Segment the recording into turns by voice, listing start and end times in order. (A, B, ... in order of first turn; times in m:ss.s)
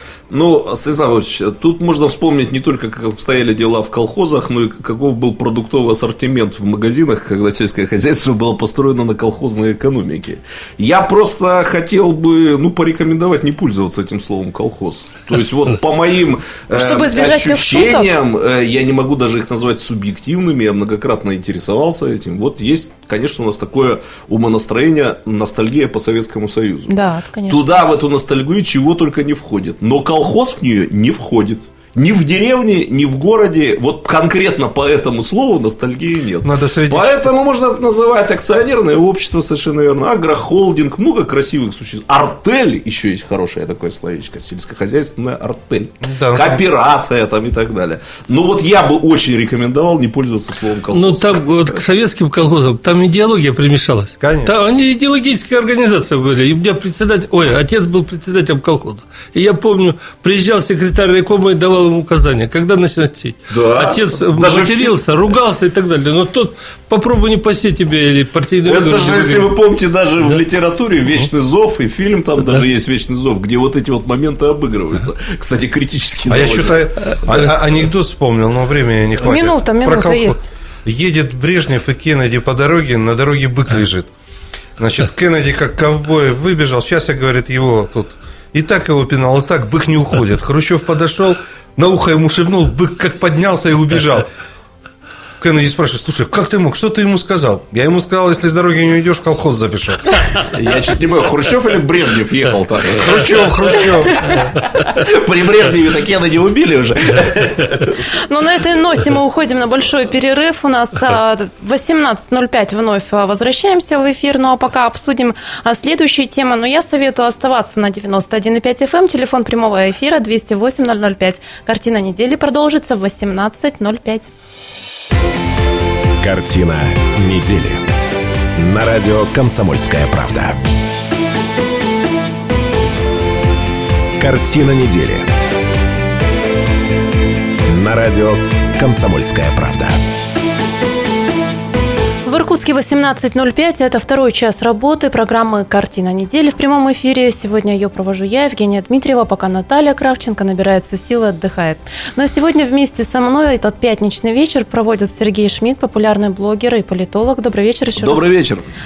0:00.3-0:26.9 A
0:16.7-0:18.1 B
0:26.9-0:27.8 B
0:27.5-0:51.8 A
0:36.4-0:37.3 C
0:46.0-0:46.6 C
0:50.9-1:09.5 D
0:54.2-0:54.5 C
1:03.5-1:05.0 A
1:08.6-1:16.8 A
1:16.3-1:24.1 C
1:19.2-1:20.5 B
1:24.8-1:34.3 C
1:35.4-1:40.3 C
1:40.5-1:48.0 A
1:43.0-1:44.3 C
1:48.3-2:04.3 B
2:06.2-2:07.8 E
2:08.6-2:10.6 E
2:14.2-2:15.3 E
2:17.7-2:20.0 E
2:22.2-2:38.3 B
2:38.0-2:38.7 A